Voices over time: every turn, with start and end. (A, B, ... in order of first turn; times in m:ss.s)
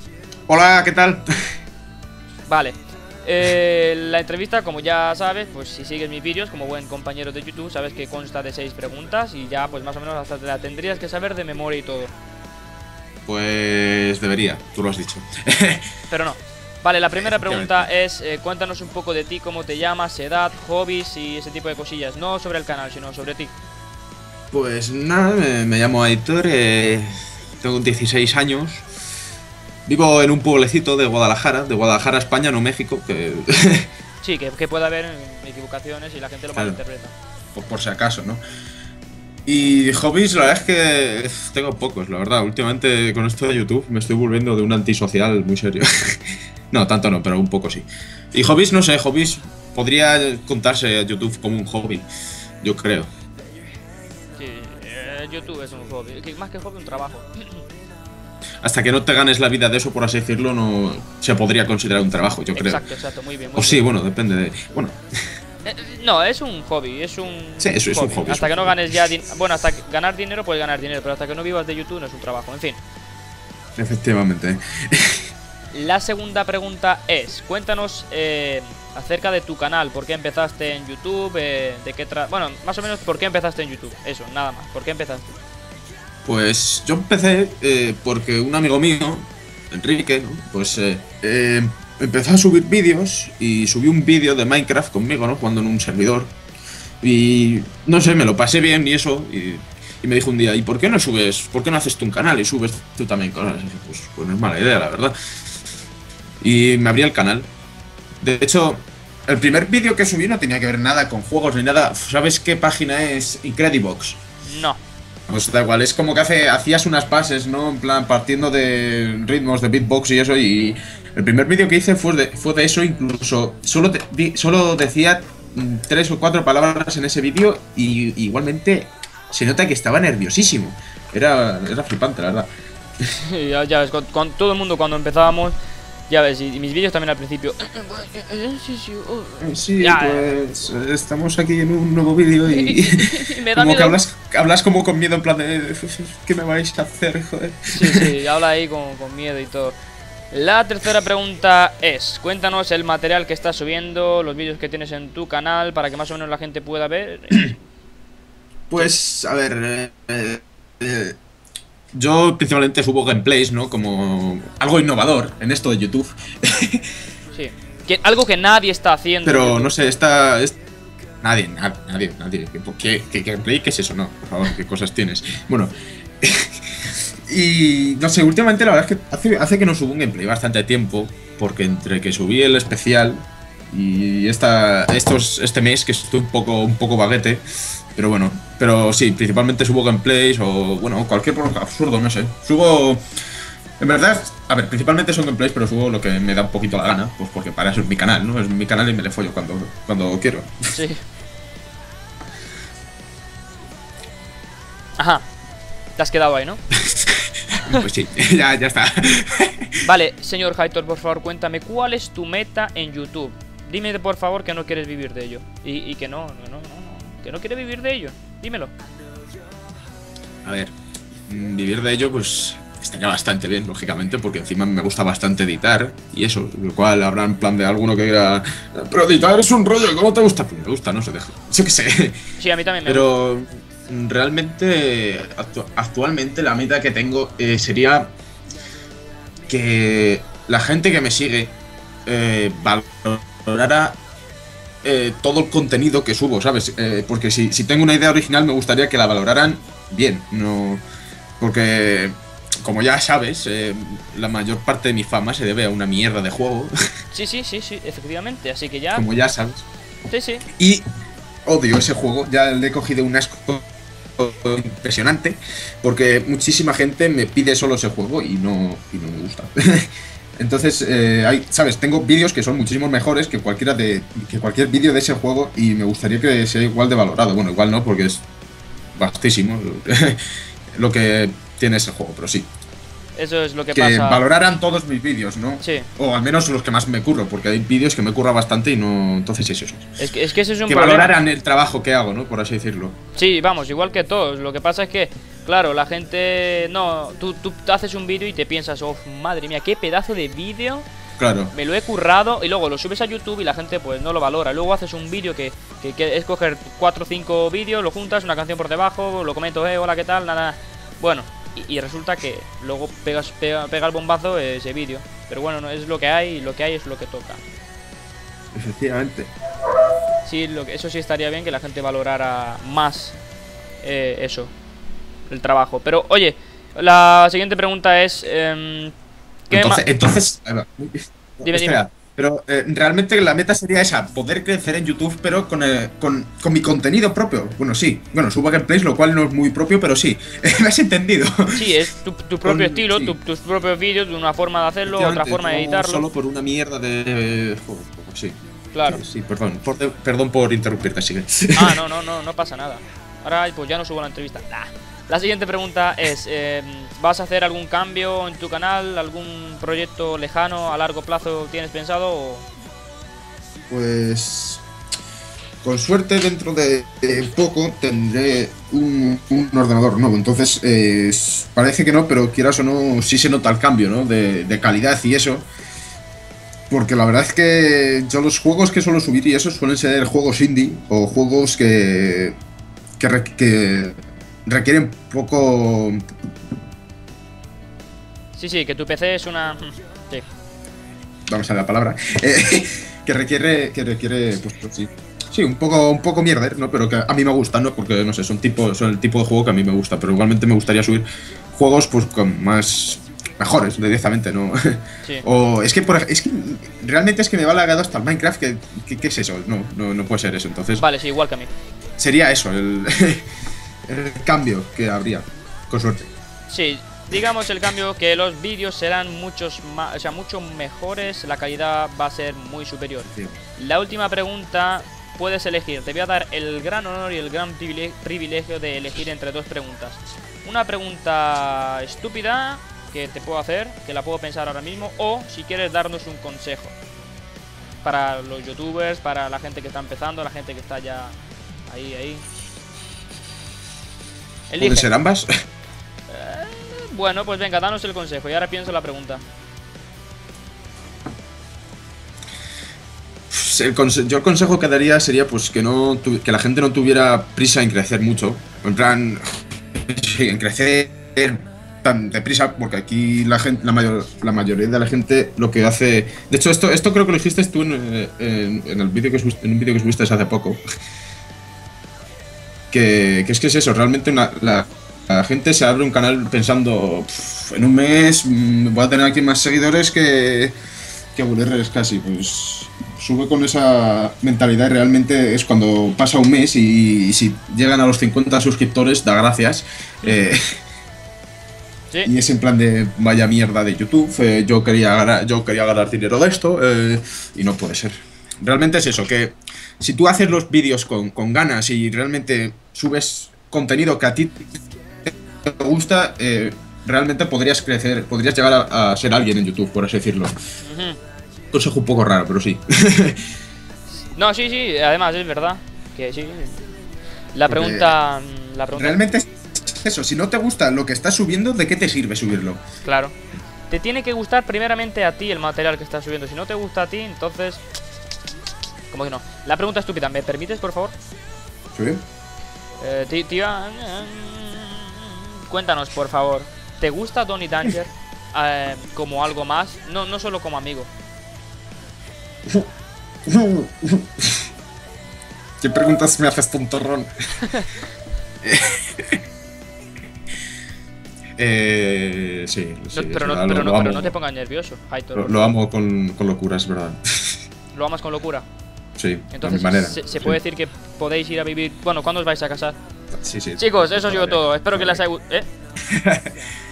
0:00.5-0:01.2 A
0:02.5-0:12.1 B
0:13.2-0:15.8 A
0:16.1-0:23.5 B
0:17.2-0:17.9 A
0:24.5-0:28.8 A
0:29.8-0:33.9 A
0:34.2-0:37.1 B
0:37.5-0:38.4 A
0:39.4-0:52.1 A
0:52.6-0:53.1 A
0:54.4-0:57.6 B
0:58.6-1:02.8 A
1:02.6-1:03.9 B
1:03.6-1:05.0 A
1:05.6-1:12.8 B
1:07.6-1:08.8 A
1:13.8-1:15.2 A
1:15.7-1:25.3 B
1:26.2-1:36.3 A
1:37.0-1:45.1 A
1:46.4-1:47.5 A
1:48.2-1:54.2 A
1:54.4-1:54.8 B
1:55.3-2:12.5 A
2:13.2-2:15.5 B
2:16.1-2:20.4 B
2:19.4-2:28.0 A
2:22.4-2:24.0 B
2:27.7-2:29.8 B
2:30.3-2:37.4 B
2:38.7-2:41.2 A
2:41.9-2:46.9 A
2:47.3-2:49.7 B
2:49.2-2:50.6 A
2:51.2-3:07.4 A
3:07.9-3:13.0 A
3:13.8-3:20.6 A
3:20.7-3:21.0 B
3:25.0-3:25.3 B
3:26.0-3:26.6 B
3:26.8-3:29.7 A
3:27.6-3:27.8 B
3:29.8-3:38.7 B
3:40.4-3:40.7 A
3:41.3-3:52.2 A
3:52.4-3:53.1 B
3:52.8-3:58.1 A
3:59.5-4:01.5 A
4:02.0-4:04.0 A
4:04.8-4:10.8 A
4:11.4-4:16.7 A
4:17.1-4:19.0 B
4:18.9-4:19.7 A
4:20.1-4:20.4 B
4:20.6-4:20.8 A
4:21.4-4:23.6 A
4:24.2-4:38.2 A
4:39.0-4:40.2 A
4:40.7-4:42.5 A
4:43.2-4:44.2 B
4:43.7-4:49.9 A
4:45.6-4:45.9 B
4:50.0-4:51.1 B
4:50.7-4:53.0 A
4:53.2-5:00.9 B
5:01.2-5:01.5 A
5:01.5-5:17.4 B
5:18.5-5:19.3 A
5:20.2-5:23.2 B
5:23.8-5:24.5 B
5:25.3-5:28.9 B
5:29.5-5:29.9 B
5:29.5-5:41.7 A
5:31.4-5:31.8 B
5:41.5-5:46.0 B
5:42.4-5:43.1 A
5:44.9-5:51.8 A
5:48.7-5:49.0 B
5:51.6-6:02.5 B
6:03.7-6:04.6 A
6:05.6-6:15.5 A
6:16.7-6:22.4 A
6:23.0-6:26.0 A
6:28.4-6:30.2 B
6:31.3-6:50.8 A
6:50.8-6:51.5 B
6:52.0-6:53.3 A
6:53.8-6:56.1 A
6:56.5-7:16.7 B
7:03.1-7:03.4 A
7:17.8-7:21.2 B
7:21.7-7:22.2 B
7:24.5-7:24.9 B
7:24.6-7:25.3 A
7:26.1-7:29.2 B
7:33.3-7:50.6 A
7:52.7-8:00.6 A
8:01.1-8:10.5 A
8:12.0-8:24.5 A
8:25.0-8:30.3 A
8:30.6-8:31.0 B
8:31.5-8:33.2 A
8:34.1-8:36.7 B
8:37.3-8:39.0 B
8:37.5-8:38.0 A
8:38.8-8:42.6 A
8:42.8-8:43.1 B
8:43.7-8:47.6 B
8:48.9-8:50.9 B
8:51.7-8:52.0 A
8:52.8-9:00.9 B
9:03.2-9:04.5 A
9:05.6-9:07.1 A
9:08.4-9:09.2 A
9:11.4-9:14.1 A
9:12.9-9:15.5 B
9:15.1-9:17.4 A
9:17.7-9:18.4 B
9:19.0-9:20.4 A
9:19.3-9:22.8 B
9:23.1-9:25.0 A
9:23.6-9:25.5 B
9:25.8-9:26.3 A